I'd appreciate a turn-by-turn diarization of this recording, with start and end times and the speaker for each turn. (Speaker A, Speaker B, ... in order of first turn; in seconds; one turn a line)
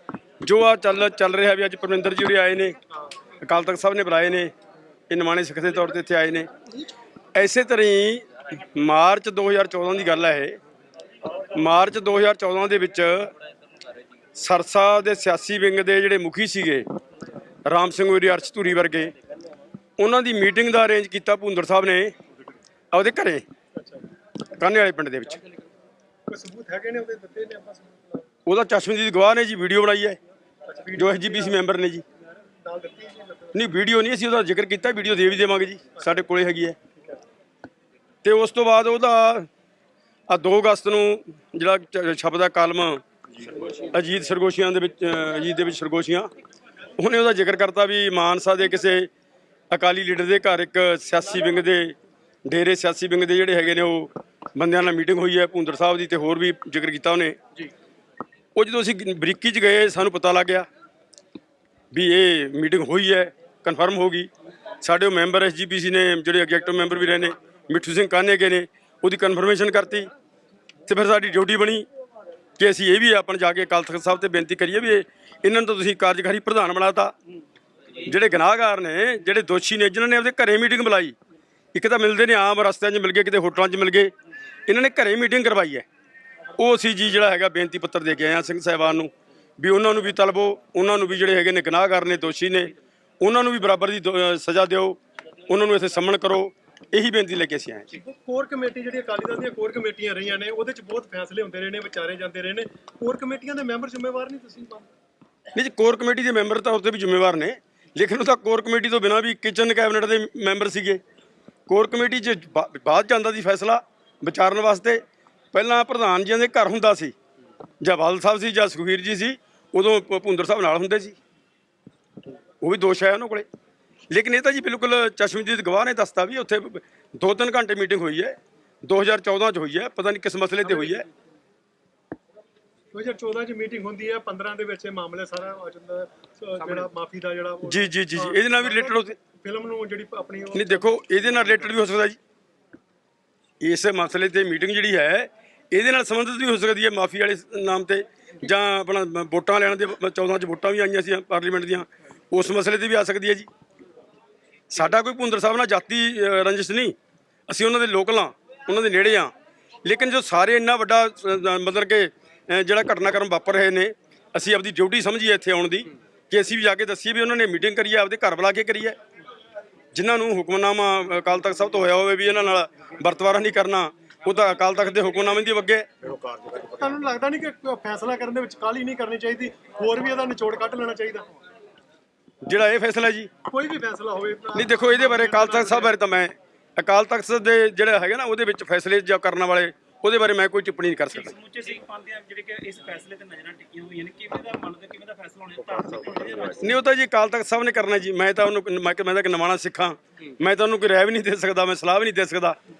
Speaker A: 0.4-2.8
Speaker A: 3.4-4.5
Speaker A: 5.1-6.5
Speaker A: 7.3-10.6
Speaker A: 11.5-13.3
Speaker A: 14.3-16.8
Speaker A: 17.6-19.1
Speaker A: 20.0-22.1
Speaker A: 22.9-23.4
Speaker B: 23.8-24.1
Speaker A: 24.6-25.4
Speaker B: 26.3-28.2
Speaker A: 28.4-30.2
Speaker B: 30.7-31.6
Speaker A: 31.0-32.0
Speaker B: 32.4-33.6
Speaker A: 33.5-36.8
Speaker A: 38.2-39.5
Speaker A: 40.3-43.0
Speaker A: 43.7-46.3
Speaker A: 47.0-49.1
Speaker A: 49.7-57.4
Speaker A: 58.5-60.7
Speaker A: 61.9-64.3
Speaker A: 64.8-70.1
Speaker A: 70.9-71.8
Speaker A: 72.6-77.1
Speaker A: 78.0-81.2
Speaker A: 81.7-84.1
Speaker A: 84.7-85.8
Speaker A: 86.5-97.9
Speaker B: 97.9-104.9
Speaker A: 105.5-111.0
Speaker A: 111.7-115.0
Speaker A: 115.5-117.1
Speaker A: 117.8-121.2
Speaker A: 122.6-123.5
Speaker A: 124.1-131.1
Speaker B: 132.9-140.9
Speaker A: 137.6-139.1
Speaker A: 140.5-142.2
Speaker A: 143.6-153.5
Speaker A: 154.7-156.9
Speaker A: 157.5-159.3
Speaker A: 159.8-169.0
Speaker A: 169.9-175.8
Speaker B: 176.0-181.2
Speaker A: 182.4-183.3
Speaker B: 183.5-185.9
Speaker A: 184.5-191.3
Speaker C: 191.1-196.7
Speaker A: 196.6-202.6